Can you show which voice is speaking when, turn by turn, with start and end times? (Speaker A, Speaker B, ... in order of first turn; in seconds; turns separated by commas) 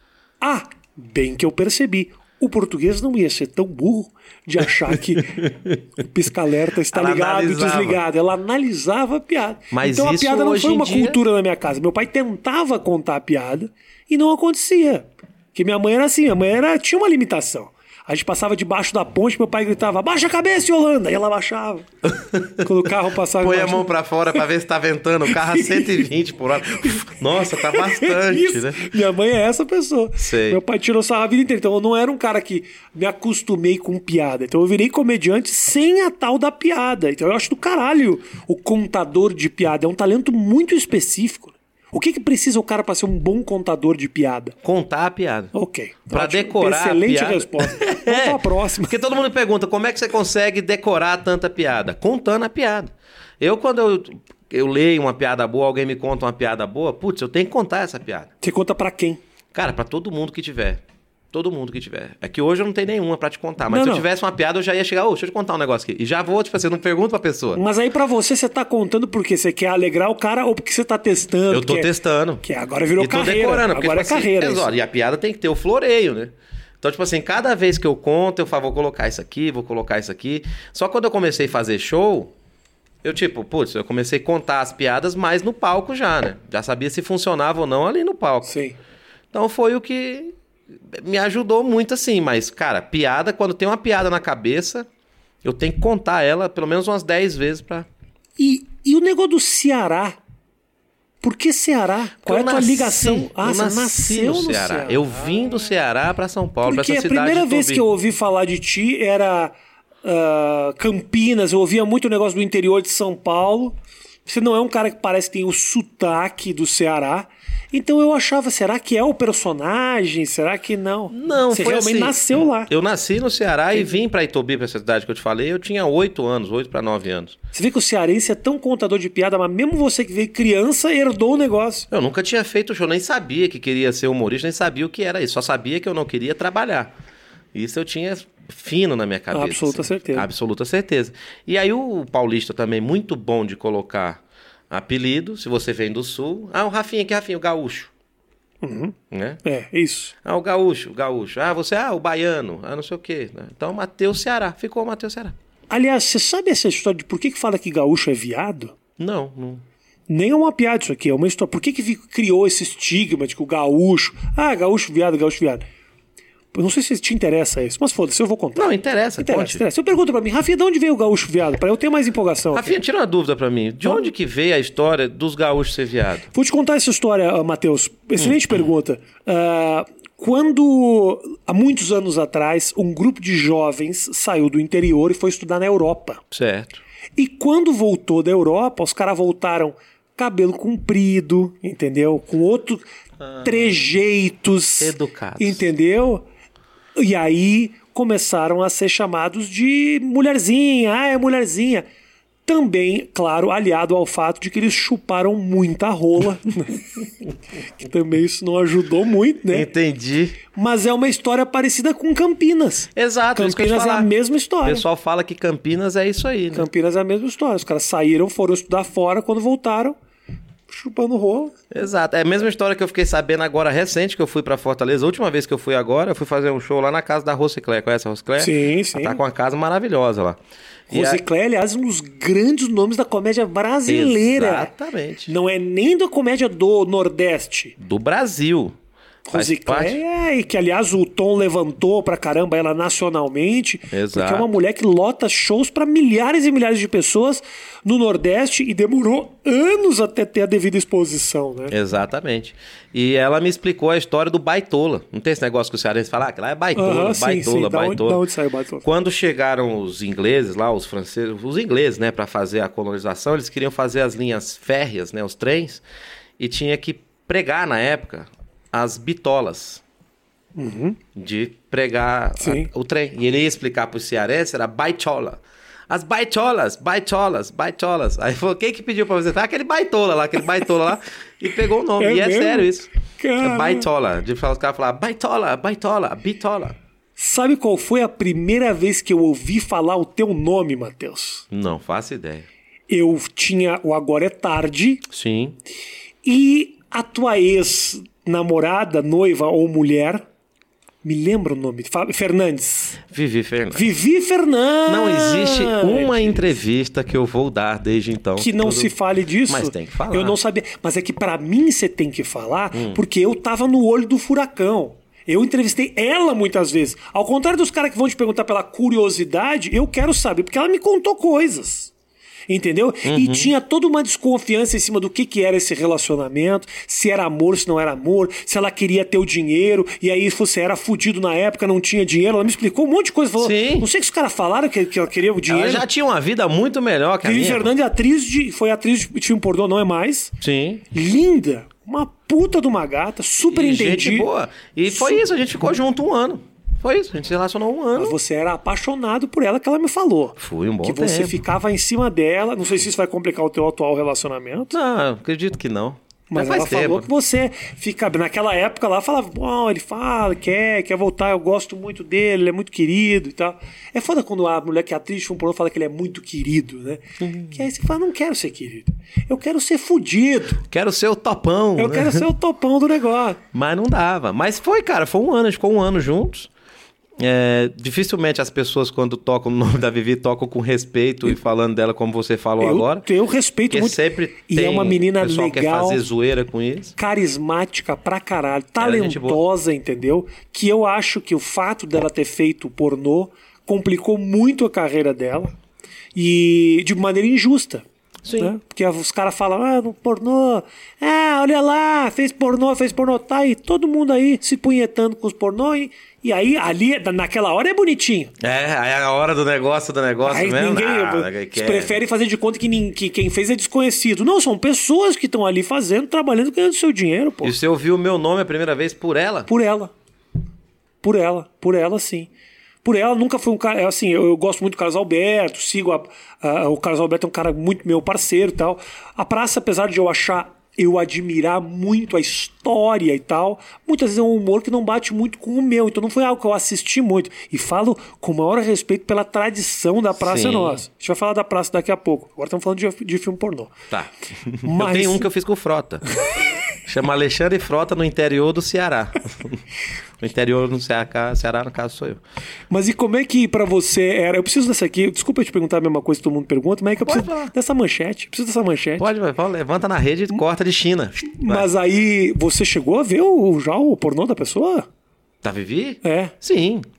Speaker A: 0.4-5.5, Speaker B: 4.9-5.8, Speaker A: 6.0-21.9, Speaker B: 6.9-8.0, Speaker B: 9.7-11.2, Speaker B: 22.0-22.7, Speaker A: 22.6-23.9, Speaker B: 23.4-28.9, Speaker A: 25.3-26.1, Speaker A: 27.5-44.5, Speaker B: 30.2-30.6, Speaker B: 44.6-45.5, Speaker A: 45.5-49.0, Speaker B: 46.1-58.3, Speaker A: 58.4-59.2, Speaker B: 59.5-67.6, Speaker A: 63.7-64.0, Speaker A: 67.5-71.9, Speaker B: 71.5-72.4, Speaker A: 72.4-74.7, Speaker B: 73.0-82.3, Speaker B: 83.0-88.5, Speaker A: 88.5-88.8, Speaker B: 89.3-94.9, Speaker B: 95.4-97.9, Speaker A: 98.4-100.2, Speaker A: 101.2-105.4, Speaker B: 102.2-107.8, Speaker A: 106.6-122.7, Speaker B: 121.1-127.4, Speaker A: 127.5-131.9, Speaker B: 131.9-136.9, Speaker B: 137.5-147.9, Speaker A: 139.3-140.3, Speaker A: 148.6-150.1, Speaker B: 149.1-149.4, Speaker B: 150.2-155.4, Speaker A: 155.7-158.7, Speaker B: 159.0-159.6, Speaker A: 160.1-165.6, Speaker A: 166.5-172.7, Speaker B: 168.6-169.6, Speaker B: 172.5-176.3, Speaker A: 176.3-186.2, Speaker B: 186.3-186.8, Speaker A: 187.2-192.8, Speaker B: 193.2-193.8, Speaker A: 193.4-196.2, Speaker B: 194.8-195.7, Speaker A: 196.9-201.8, Speaker A: 202.4-206.9, Speaker A: 207.8-209.7, Speaker B: 209.5-210.4, Speaker A: 210.5-214.8, Speaker B: 212.9-214.1, Speaker B: 214.6-216.7, Speaker A: 216.5-219.9, Speaker A: 220.7-221.5, Speaker B: 221.7-231.2, Speaker A: 228.4-229.2, Speaker A: 230.9-234.7, Speaker B: 233.9-235.3, Speaker A: 235.3-237.8, Speaker B: 237.8-238.8, Speaker A: 239.3-251.7, Speaker B: 239.3-240.0, Speaker B: 243.9-244.5, Speaker B: 251.7-258.2, Speaker A: 256.7-258.9, Speaker B: 258.8-265.8, Speaker B: 266.4-269.8, Speaker A: 270.6-271.0, Speaker B: 271.1-286.8, Speaker A: 272.4-272.7, Speaker A: 282.0-283.9, Speaker A: 287.2-291.4, Speaker B: 291.5-292.4, Speaker A: 292.9-295.0, Speaker B: 295.1-295.6, Speaker A: 296.2-300.2, Speaker A: 301.0-303.0, Speaker B: 303.0-303.9, Speaker A: 303.7-306.5, Speaker B: 304.9-308.9, Speaker A: 308.4-321.9, Speaker B: 309.5-310.4, Speaker B: 312.7-313.0, Speaker A: 322.5-335.9, Speaker B: 323.0-323.5, Speaker B: 333.4-333.9, Speaker B: 335.5-337.7, Speaker A: 337.2-340.4, Speaker B: 340.4-340.8, Speaker A: 340.9-344.3, Speaker B: 343.5-348.2, Speaker A: 344.9-345.2, Speaker A: 347.9-354.8, Speaker B: 350.4-351.4, Speaker B: 354.7-357.1, Speaker A: 356.3-370.6, Speaker B: 367.2-367.6, Speaker B: 370.7-372.3, Speaker A: 371.8-373.4, Speaker B: 373.5-376.5, Speaker B: 377.2-383.1, Speaker A: 382.6-386.0, Speaker B: 383.7-386.9, Speaker A: 387.0-395.5, Speaker B: 388.8-389.4, Speaker A: 396.1-397.9, Speaker B: 398.2-398.5, Speaker A: 398.4-408.3, Speaker B: 408.4-411.9, Speaker A: 410.2-417.6, Speaker B: 417.4-419.5, Speaker A: 419.5-419.9, Speaker A: 421.0-422.3, Speaker A: 422.8-443.8, Speaker B: 440.1-440.8, Speaker B: 443.9-446.1, Speaker A: 444.6-445.3, Speaker B: 446.8-449.6, Speaker B: 450.2-452.2, Speaker A: 452.7-459.1, Speaker B: 457.0-457.5, Speaker B: 459.0-461.7, Speaker A: 461.2-464.9, Speaker B: 465.4-466.9, Speaker A: 466.0-466.4